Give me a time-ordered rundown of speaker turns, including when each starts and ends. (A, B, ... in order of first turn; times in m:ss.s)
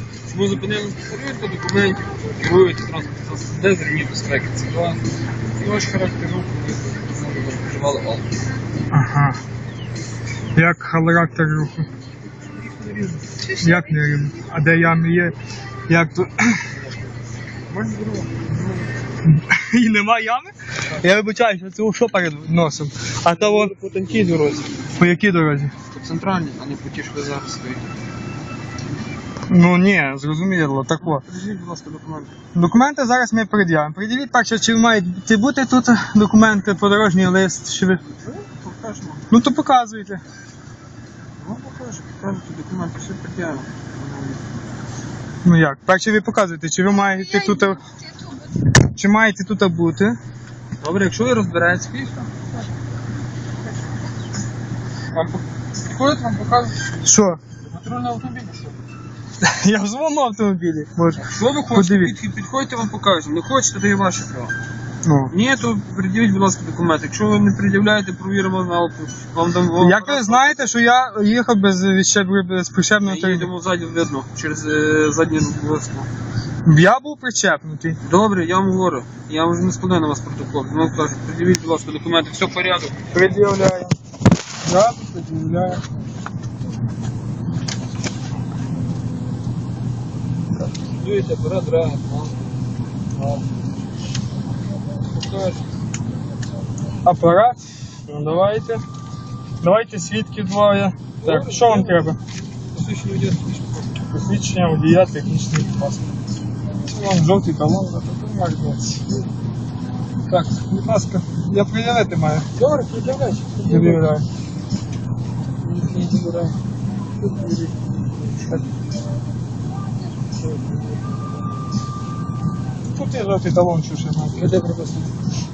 0:00.3-0:05.0 A
0:05.6-0:08.4 A
0:08.9-0:09.4 B
0:10.5-0:11.9 B
0:12.6-0:13.5 A
0:13.6-0:15.4 B
0:15.9-0:16.6 B
0:17.6-0:18.9 A
0:19.2-0:23.7 B
0:23.3-0:24.9 A
0:24.9-0:25.7 B
0:25.9-0:28.0 A
0:29.5-0:31.2 B
0:31.0-0:32.4 A
0:32.5-0:38.0 B
0:38.1-0:39.3 A
0:39.3-0:40.2 B
0:41.4-0:44.4 A
0:45.4-0:47.8 B
0:48.8-0:50.2 B
0:50.8-0:52.5 A
0:55.1-0:58.8 A
0:57.0-0:57.4 B
0:59.4-1:02.2 B
1:01.2-1:04.5 A
1:05.0-1:05.3 B
1:05.3-1:10.7 A
1:09.8-1:13.5 B
1:13.0-1:16.1 A
1:16.6-1:18.0 B
1:18.0-1:23.3 A
1:23.1-1:23.9 B
1:24.6-1:25.8 B
1:30.8-1:32.5 A
1:33.1-1:33.6 A
1:34.9-1:35.7 A
1:37.0-1:38.8 B
1:39.6-1:42.2 B
1:41.2-1:42.2 A
1:42.7-1:44.0 A
1:44.1-1:46.1 B
1:46.9-1:49.0 B
1:50.3-1:52.5 B
1:52.5-1:54.0 A
1:53.7-1:54.2 B
1:55.6-1:56.6 A
1:57.2-1:57.7 A
2:00.4-2:01.0 A
2:02.9-2:04.4 B
2:04.3-2:05.1 A